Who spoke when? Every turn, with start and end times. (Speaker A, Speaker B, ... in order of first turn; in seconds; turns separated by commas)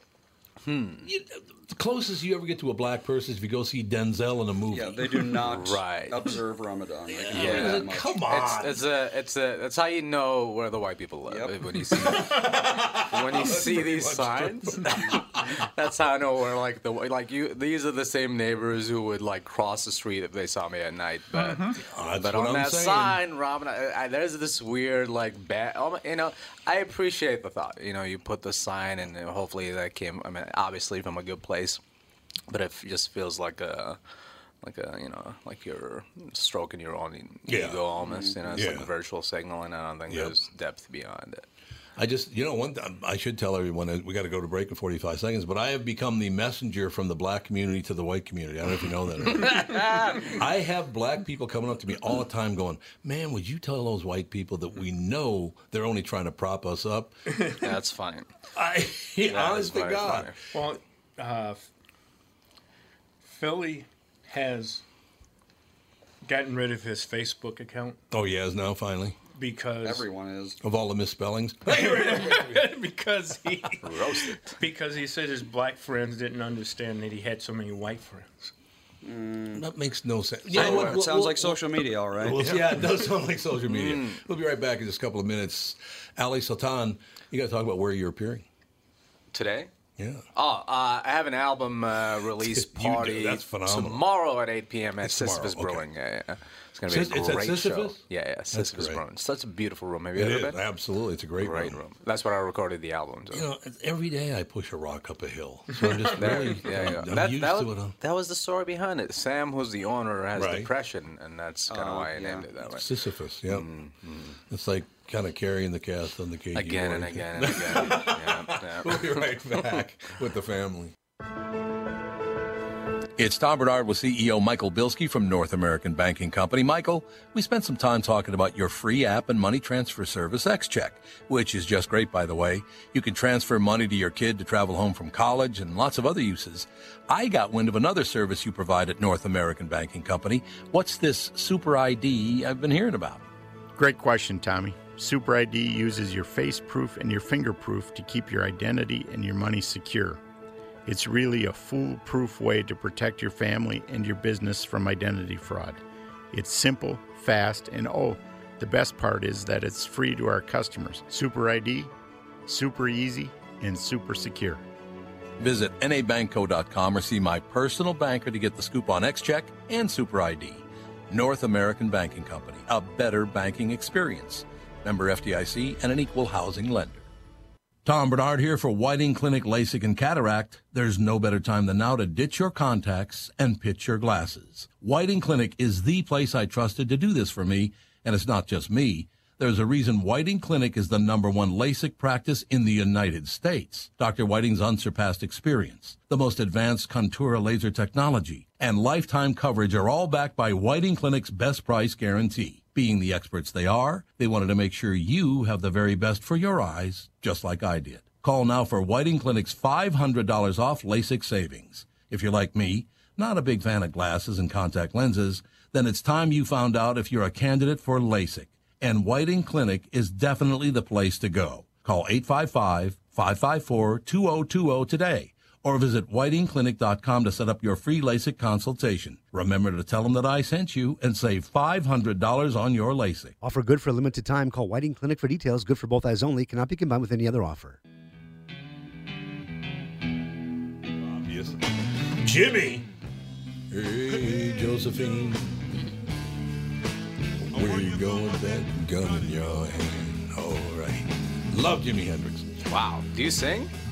Speaker A: 0.6-1.1, Speaker B: 1.0-5.2, Speaker C: 4.7-8.2, Speaker A: 5.4-6.4, Speaker B: 7.1-8.8, Speaker A: 7.3-31.8, Speaker C: 11.3-11.6, Speaker B: 11.9-15.6, Speaker B: 21.7-23.2, Speaker A: 32.5-34.0, Speaker A: 34.6-41.4, Speaker B: 37.5-37.8, Speaker C: 38.0-38.5, Speaker B: 38.5-38.9, Speaker B: 40.1-40.4, Speaker B: 42.0-57.2, Speaker A: 49.4-50.4, Speaker A: 57.6-58.3, Speaker B: 58.5-60.3, Speaker A: 59.3-60.3, Speaker D: 60.5-61.7, Speaker D: 63.2-64.8, Speaker D: 66.2-68.0, Speaker B: 68.1-69.2, Speaker D: 69.3-70.1, Speaker C: 69.8-70.6, Speaker B: 70.6-72.7, Speaker D: 71.7-78.5, Speaker A: 73.8-74.6, Speaker C: 79.0-79.7, Speaker B: 79.5-88.5, Speaker C: 80.5-82.5, Speaker A: 80.5-81.0, Speaker D: 82.4-82.7, Speaker A: 83.7-84.2, Speaker A: 89.3-89.7, Speaker B: 90.0-90.2, Speaker A: 90.3-100.6, Speaker B: 92.3-94.0, Speaker B: 95.0-95.8, Speaker B: 96.9-99.0, Speaker B: 100.1-101.8, Speaker A: 101.4-103.5, Speaker B: 103.3-107.9, Speaker D: 105.7-106.5, Speaker A: 106.1-112.9, Speaker B: 110.3-110.7, Speaker C: 111.7-112.5, Speaker B: 112.7-113.7, Speaker A: 113.5-114.4, Speaker B: 114.5-120.9, Speaker A: 116.5-119.8, Speaker B: 123.2-143.2, Speaker E: 143.8-150.2, Speaker E: 150.8-155.8, Speaker E: 156.3-161.9, Speaker E: 162.4-164.6, Speaker B: 165.4-177.1, Speaker B: 177.8-233.3, Speaker F: 233.4-237.8, Speaker B: 240.8-242.9, Speaker B: 243.7-245.7, Speaker B: 247.5-252.5, Speaker A: 252.6-253.7